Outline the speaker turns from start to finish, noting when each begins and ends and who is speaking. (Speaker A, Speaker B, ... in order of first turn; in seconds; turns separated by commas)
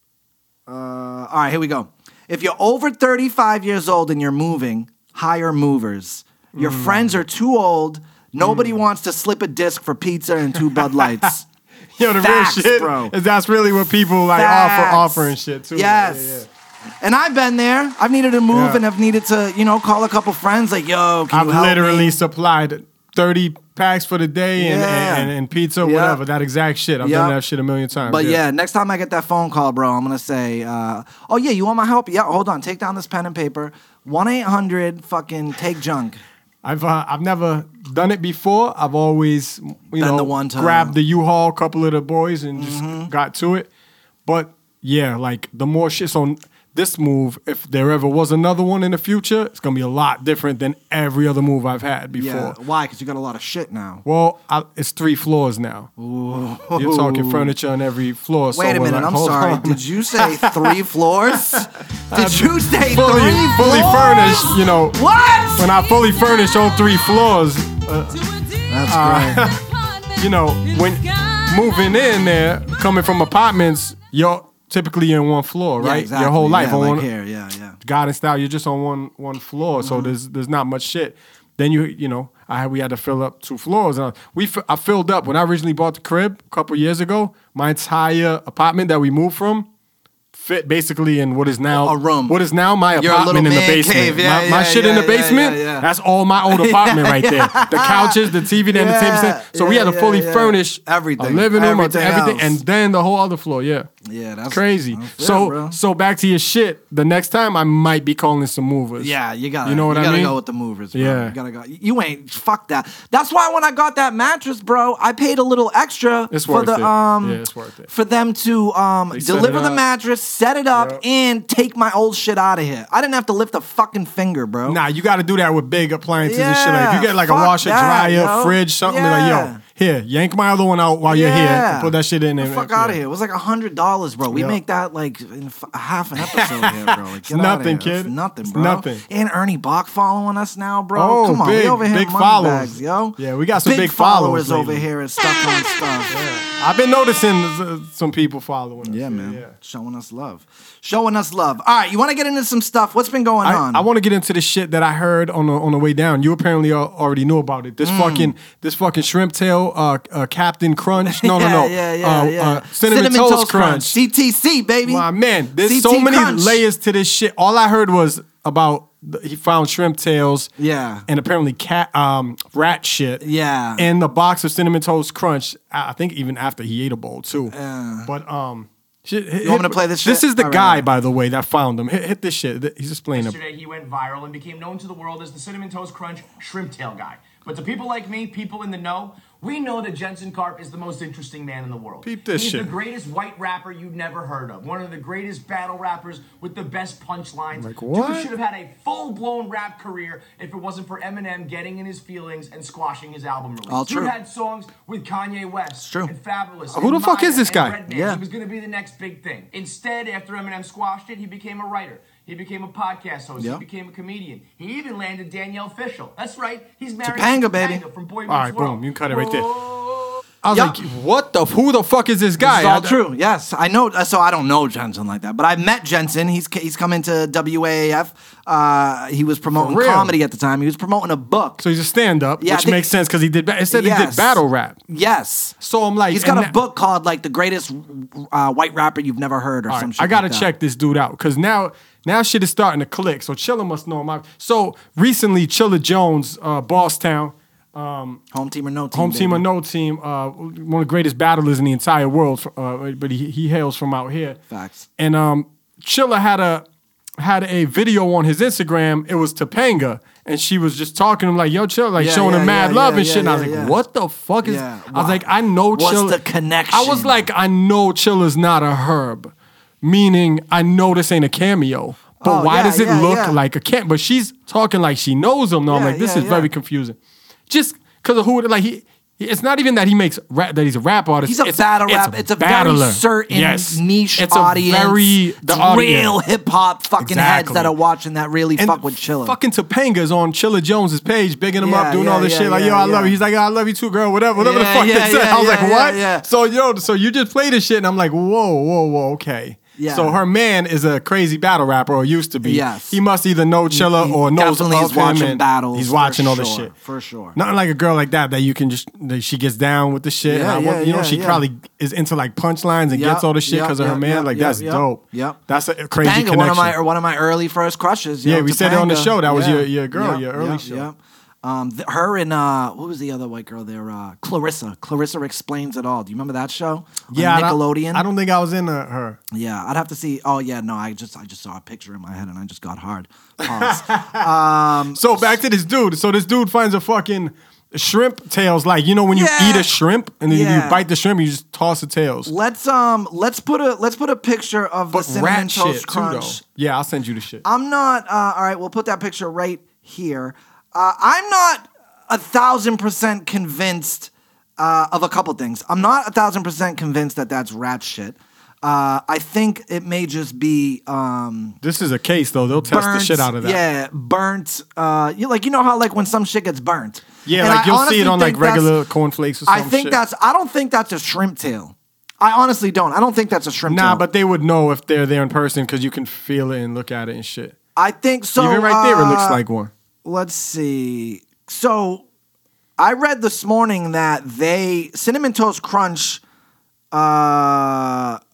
Speaker A: 0.7-11.5, Speaker B: 6.5-7.1, Speaker B: 8.4-8.8, Speaker B: 10.5-11.3, Speaker B: 11.9-16.5, Speaker A: 12.2-13.1, Speaker A: 14.3-16.4, Speaker A: 17.0-22.2, Speaker B: 18.5-18.8, Speaker B: 21.3-28.4, Speaker A: 24.6-25.3, Speaker A: 25.8-26.2, Speaker A: 27.0-27.4, Speaker A: 28.0-36.2, Speaker B: 36.6-43.7, Speaker A: 40.0-41.0, Speaker A: 42.5-43.1, Speaker B: 44.2-52.6, Speaker A: 52.1-54.0, Speaker B: 54.0-55.9, Speaker A: 56.0-57.5, Speaker B: 56.7-60.8, Speaker A: 58.5-65.7, Speaker B: 61.3-65.0, Speaker B: 65.5-68.3, Speaker A: 68.7-69.5, Speaker B: 68.8-77.1, Speaker A: 75.8-77.8, Speaker B: 77.8-89.7, Speaker A: 79.8-80.1, Speaker B: 90.3-103.9, Speaker A: 91.7-92.4, Speaker A: 93.0-95.9, Speaker A: 96.5-102.6, Speaker A: 104.0-105.8, Speaker B: 104.5-110.3, Speaker A: 109.0-124.8, Speaker B: 110.9-111.3, Speaker B: 116.3-117.9, Speaker B: 119.1-119.8, Speaker B: 120.7-121.0, Speaker B: 124.7-133.0, Speaker A: 126.2-129.6, Speaker A: 131.1-146.1, Speaker B: 134.3-134.6, Speaker B: 136.2-139.0, Speaker B: 140.9-144.8, Speaker B: 146.1-149.5, Speaker A: 148.8-153.8, Speaker B: 153.4-164.0, Speaker A: 157.8-158.3, Speaker A: 161.0-165.1, Speaker B: 164.8-170.5, Speaker A: 165.6-166.6, Speaker A: 170.6-171.1, Speaker B: 171.1-173.2, Speaker A: 173.2-173.9, Speaker B: 173.8-177.5, Speaker A: 177.5-178.1, Speaker B: 178.1-183.4, Speaker A: 179.4-180.8, Speaker C: 183.1-220.2, Speaker B: 192.0-192.7, Speaker B: 197.5-198.3, Speaker A: 203.7-204.1, Speaker A: 205.8-206.1, Speaker B: 206.7-207.8, Speaker A: 207.9-208.2, Speaker A: 217.0-217.8, Speaker B: 218.3-219.5, Speaker B: 220.4-223.0, Speaker A: 220.5-220.8, Speaker A: 222.4-231.6, Speaker B: 229.5-230.1, Speaker B: 231.6-234.8, Speaker A: 232.4-232.9, Speaker A: 233.7-235.6, Speaker B: 235.6-236.5, Speaker A: 236.1-240.5, Speaker B: 239.7-248.2, Speaker A: 248.3-249.4, Speaker B: 248.9-254.4, Speaker A: 254.5-254.9, Speaker B: 255.0-256.6, Speaker B: 257.2-266.2, Speaker A: 262.0-263.8, Speaker A: 264.4-267.2, Speaker B: 266.7-277.0, Speaker A: 272.2-273.4, Speaker A: 275.7-276.5, Speaker B: 277.5-286.2, Speaker A: 281.2-289.4, Speaker B: 287.0-287.7, Speaker B: 288.6-306.7, Speaker A: 291.6-293.1, Speaker A: 294.3-296.2, Speaker A: 299.8-300.2, Speaker A: 302.4-303.0, Speaker A: 303.7-307.4, Speaker B: 307.3-316.7, Speaker A: 310.2-311.4, Speaker A: 312.9-315.4, Speaker A: 316.0-328.0, Speaker B: 318.2-320.9, Speaker B: 327.1-329.2, Speaker A: 329.3-335.4, Speaker B: 333.4-334.3, Speaker B: 334.9-342.3, Speaker A: 339.1-339.7, Speaker A: 340.3-340.8, Speaker A: 342.2-346.4, Speaker B: 344.9-347.4, Speaker A: 347.4-361.6, Speaker B: 361.6-363.6, Speaker A: 362.6-368.7, Speaker B: 367.2-370.0, Speaker A: 369.5-374.0, Speaker B: 373.7-377.6, Speaker A: 377.8-379.4, Speaker B: 378.4-379.7, Speaker A: 380.0-382.0, Speaker A: 382.8-386.2, Speaker A: 386.9-388.2